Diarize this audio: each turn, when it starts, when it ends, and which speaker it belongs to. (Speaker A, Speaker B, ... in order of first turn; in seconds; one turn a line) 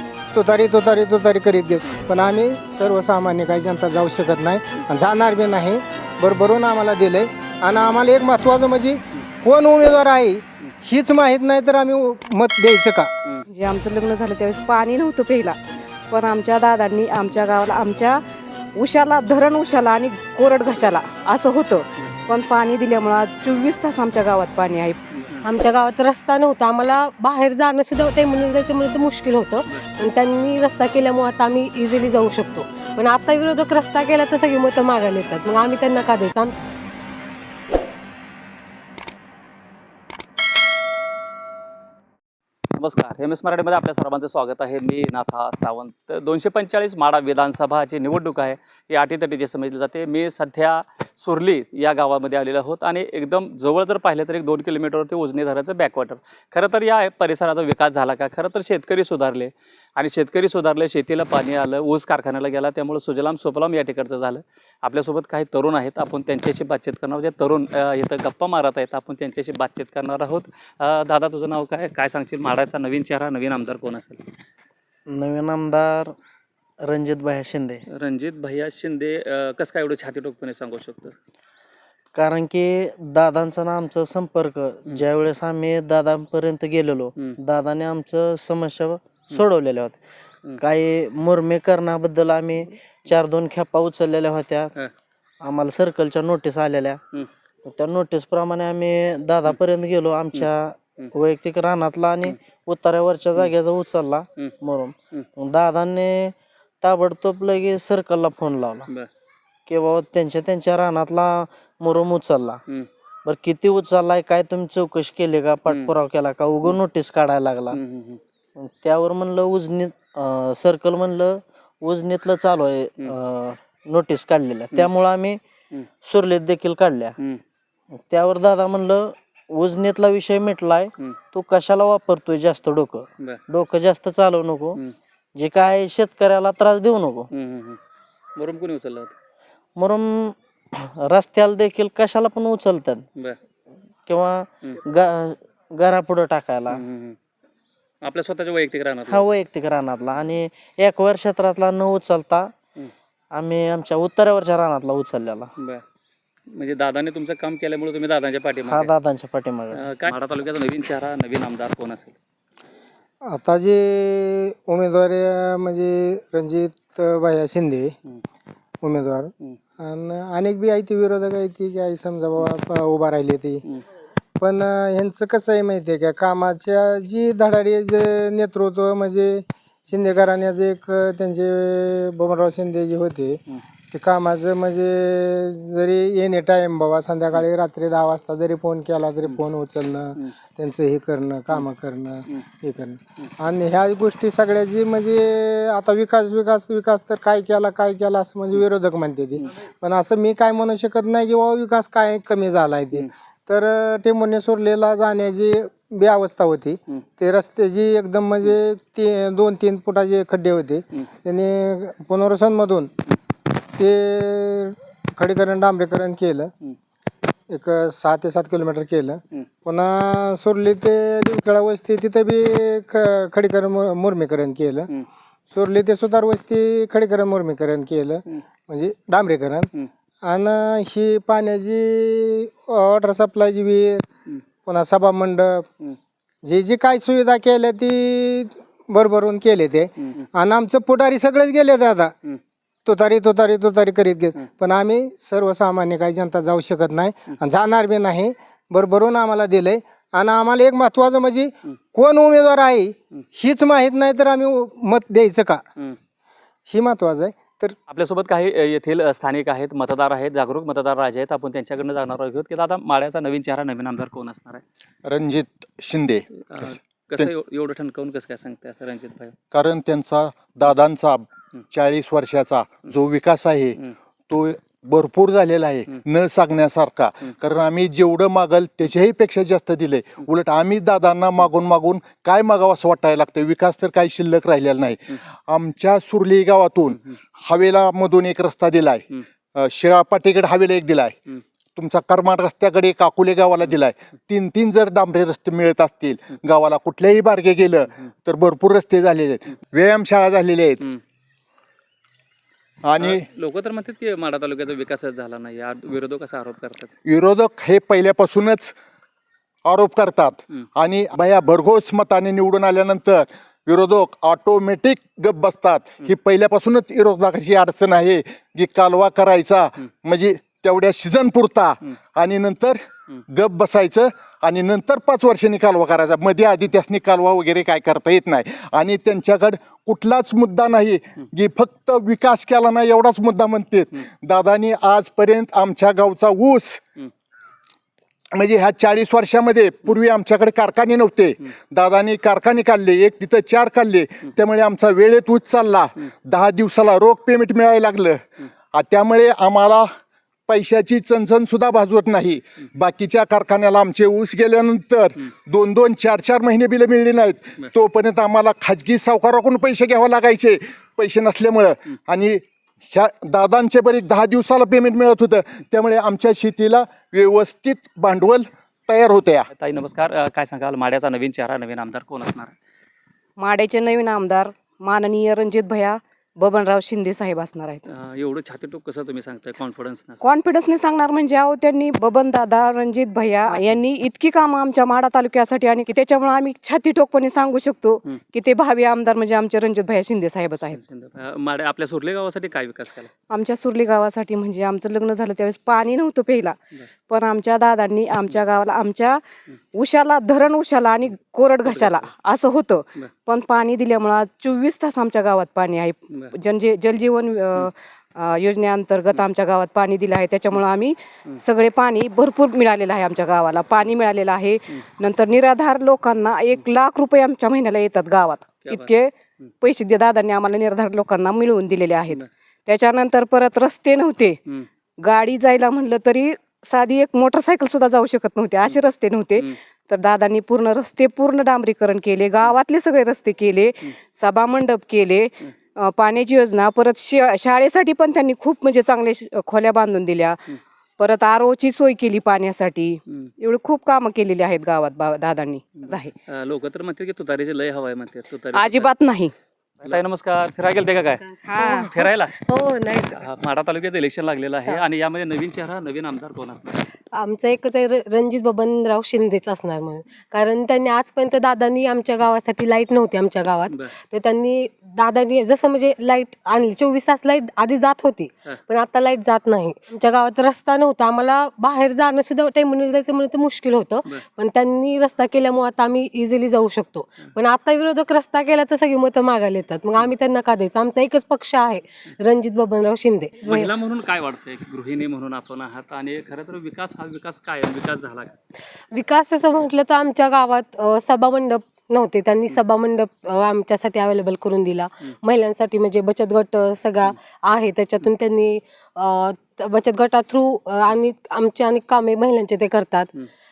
Speaker A: 0.3-13.1
Speaker B: 13.5-15.6
Speaker B: 16.1-18.2
Speaker B: 18.8-25.0
Speaker C: 25.2-25.4
Speaker D: 25.4-36.6
Speaker C: 42.8-74.3
Speaker E: 75.1-76.2
Speaker E: 76.8-77.8
Speaker C: 77.9-81.2
Speaker E: 82.2-90.0
Speaker E: 90.6-94.7
Speaker E: 95.4-97.0
Speaker E: 97.7-108.9
Speaker E: 109.7-112.6
Speaker E: 113.2-117.8
Speaker C: 117.7-118.2
Speaker E: 118.6-125.4
Speaker E: 126.0-127.2
Speaker E: 128.0-134.8
Speaker E: 135.4-137.3
Speaker C: 137.3-137.8
Speaker C: 138.4-139.2
Speaker E: 139.8-143.1
Speaker E: 144.1-146.8
Speaker C: 146.7-147.2
Speaker C: 148.0-149.2
Speaker E: 149.1-152.5
Speaker E: 153.3-155.5
Speaker C: 155.6-155.8
Speaker C: 156.5-158.9
Speaker E: 158.7-159.9
Speaker C: 159.7-162.2
Speaker A: 163.3-167.9
Speaker A: 168.8-173.6
Speaker A: 174.4-212.9
Speaker A: 213.8-216.5
Speaker A: 217.5-224.9
Speaker A: 225.5-229.7
Speaker A: 230.2-234.1
Speaker A: 234.6-235.7
Speaker A: 236.4-242.1
Speaker A: 242.8-255.6
Speaker A: 256.7-257.8
Speaker C: 257.9-264.6
Speaker F: 265.1-267.3
Speaker C: 266.5-269.4
Speaker F: 269.5-273.8
Speaker F: 274.3-291.2
Speaker F: 291.8-300.8
Speaker F: 302.8-303.2
Speaker C: 303.0-306.9
Speaker F: 307.1-308.8
Speaker F: 309.6-336.8
Speaker F: 338.3-349.9
Speaker F: 350.5-369.5
Speaker C: 369.6-372.5
Speaker B: 373.4-377.8
Speaker C: 377.9-380.2
Speaker B: 380.2-390.8
Speaker C: 390.7-393.1
Speaker B: 393.3-396.6
Speaker B: 397.1-399.2
Speaker B: 399.7-424.4
Speaker C: 401.7-402.0
Speaker C: 418.6-418.9
Speaker B: 425.0-446.1
Speaker C: 446.3-448.9
Speaker B: 448.5-449.3
Speaker C: 449.8-451.3
Speaker D: 451.4-453.2
Speaker B: 451.4-451.9
Speaker C: 451.8-452.3
Speaker C: 453.2-456.8
Speaker D: 457.1-483.7
Speaker C: 483.4-488.4
Speaker D: 488.9-503.1